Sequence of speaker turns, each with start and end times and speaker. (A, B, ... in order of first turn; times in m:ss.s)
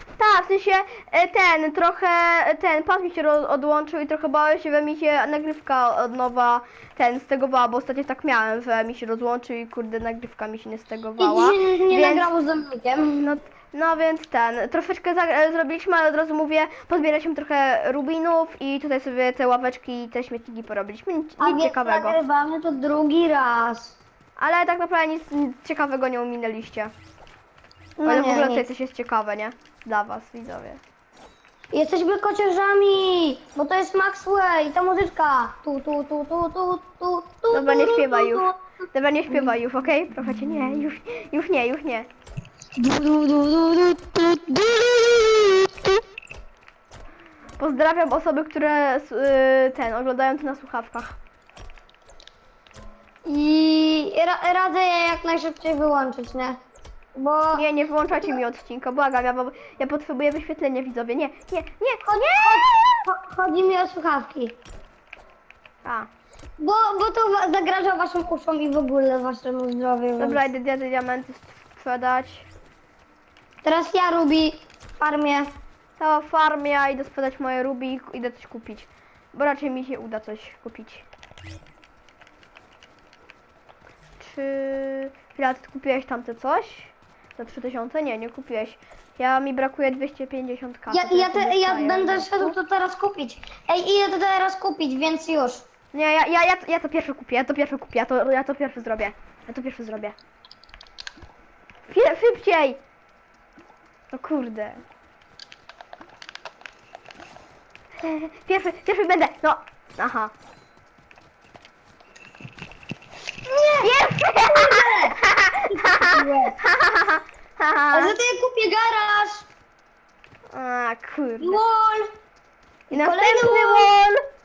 0:00.2-0:12.3 A
0:11.2-0:13.3 B
0:13.2-0:22.2 A
0:21.4-0:24.0 B
0:24.4-0:26.9 A
0:28.0-0:28.7 B
0:28.1-0:30.8 A
0:31.7-0:38.6 B
0:37.5-0:42.1 A
0:42.8-0:46.0 B
0:47.6-0:51.2 A
0:53.2-0:56.6 B
0:57.2-0:58.4 B
0:57.5-1:03.0 A
1:02.0-1:04.6 B
1:05.8-1:06.1 A
1:06.6-1:10.4 B
1:10.2-1:12.5 A
1:13.6-1:15.5 B
1:16.0-1:21.0 A
1:24.2-1:32.6 A
1:30.9-1:35.6 B
1:35.9-1:40.2 A
1:41.9-1:42.8 A
1:44.1-1:44.8 A
1:48.0-1:50.3 A
1:53.4-1:55.2 B
1:53.8-1:58.2 A
1:55.7-1:56.6 B
1:57.9-1:59.5 B
2:00.5-2:01.6 A
2:01.4-2:02.1 B
2:02.9-2:03.9 B
2:02.9-2:04.2 A